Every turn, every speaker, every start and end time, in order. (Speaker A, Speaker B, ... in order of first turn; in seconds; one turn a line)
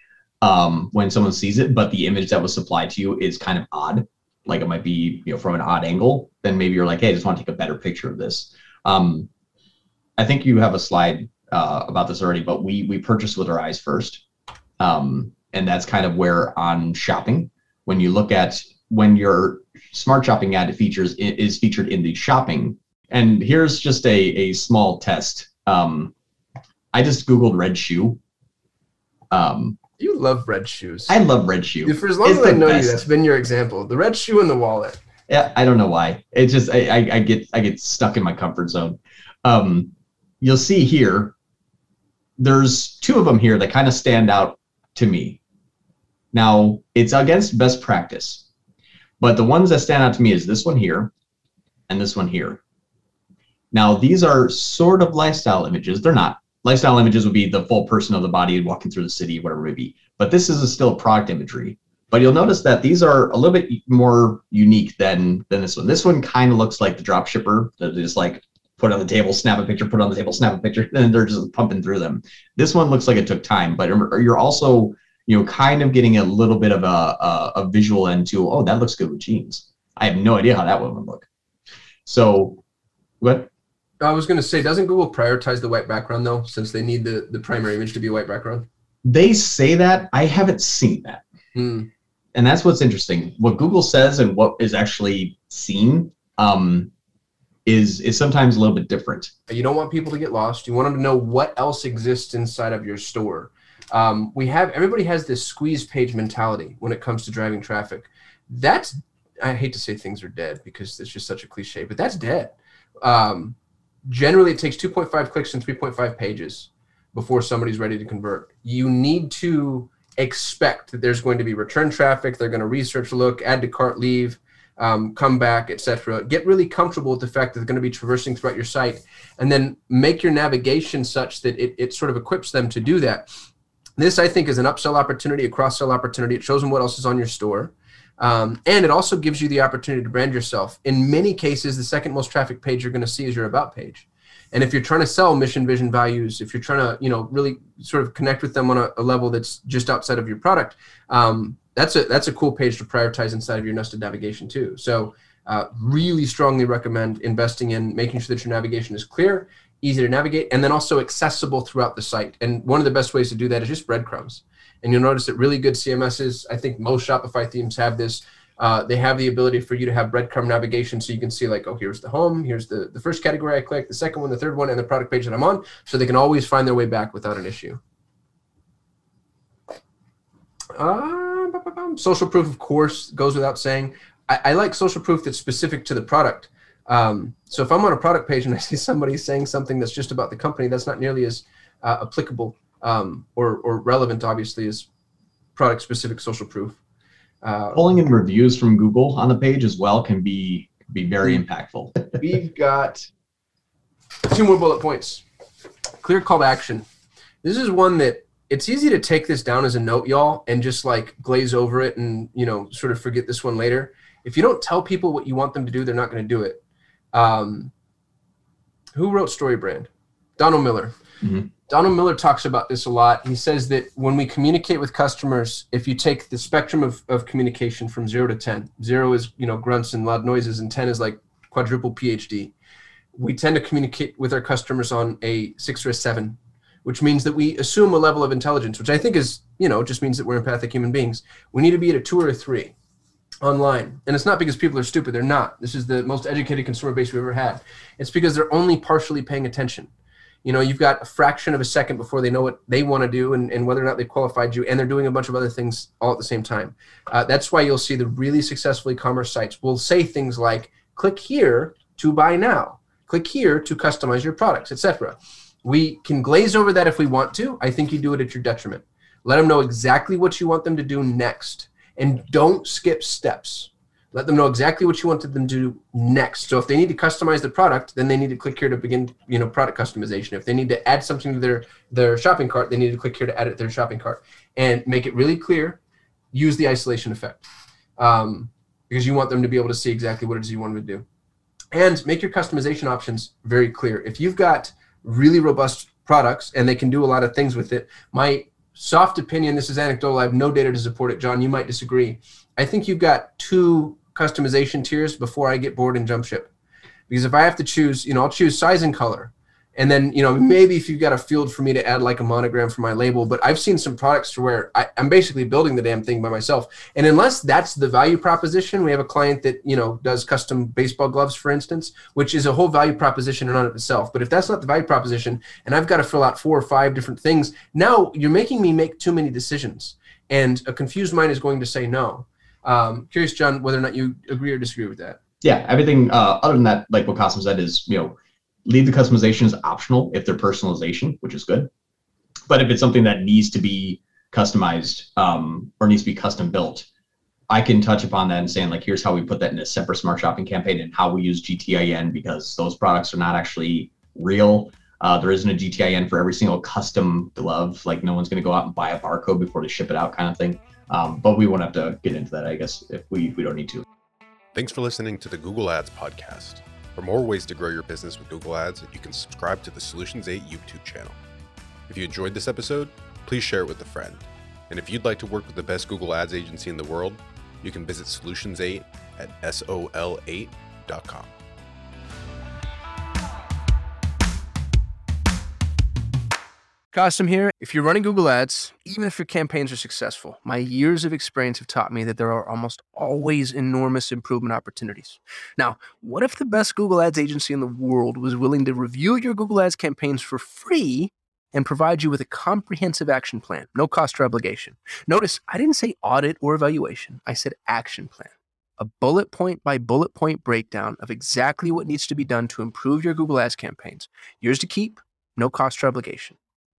Speaker A: 0.4-9.3
Speaker A: 10.2-14.2
Speaker A: 14.8-26.1
Speaker A: 26.9-28.2
Speaker A: 29.3-29.8
Speaker B: 30.0-31.2
Speaker A: 31.1-33.0
Speaker B: 31.9-35.0
Speaker A: 35.3-41.3
Speaker A: 42.4-45.4
Speaker A: 46.3-48.5
Speaker A: 49.2-51.1
Speaker A: 51.9-52.6
Speaker A: 53.7-81.3
Speaker A: 82.1-82.6
Speaker A: 83.2-83.5
Speaker B: 84.0-88.7
Speaker A: 89.0-91.2
Speaker B: 91.5-91.9
Speaker A: 92.3-96.9
Speaker A: 97.7-99.3
Speaker B: 99.5-133.3
Speaker B: 134.0-177.8
Speaker B: 180.8-194.9
Speaker B: 195.6-196.8
Speaker B: 197.4-197.8
Speaker A: 197.7-202.1
Speaker B: 202.2-203.1
Speaker B: 204.2-205.2
Speaker B: 206.0-206.9
Speaker B: 207.4-216.6
Speaker B: 217.1-217.7
Speaker B: 218.9-220.9
Speaker B: 221.7-232.5
Speaker B: 233.2-242.8
Speaker B: 243.4-249.9
Speaker B: 250.4-285.8
Speaker B: 286.3-287.5
Speaker B: 288.0-291.1
Speaker B: 291.7-306.5
Speaker B: 307.1-335.2
Speaker A: 335.4-341.7
Speaker A: 342.5-346.9
Speaker A: 347.5-363.9
Speaker C: 364.5-371.2
Speaker C: 371.9-381.3
Speaker B: 386.9-416.4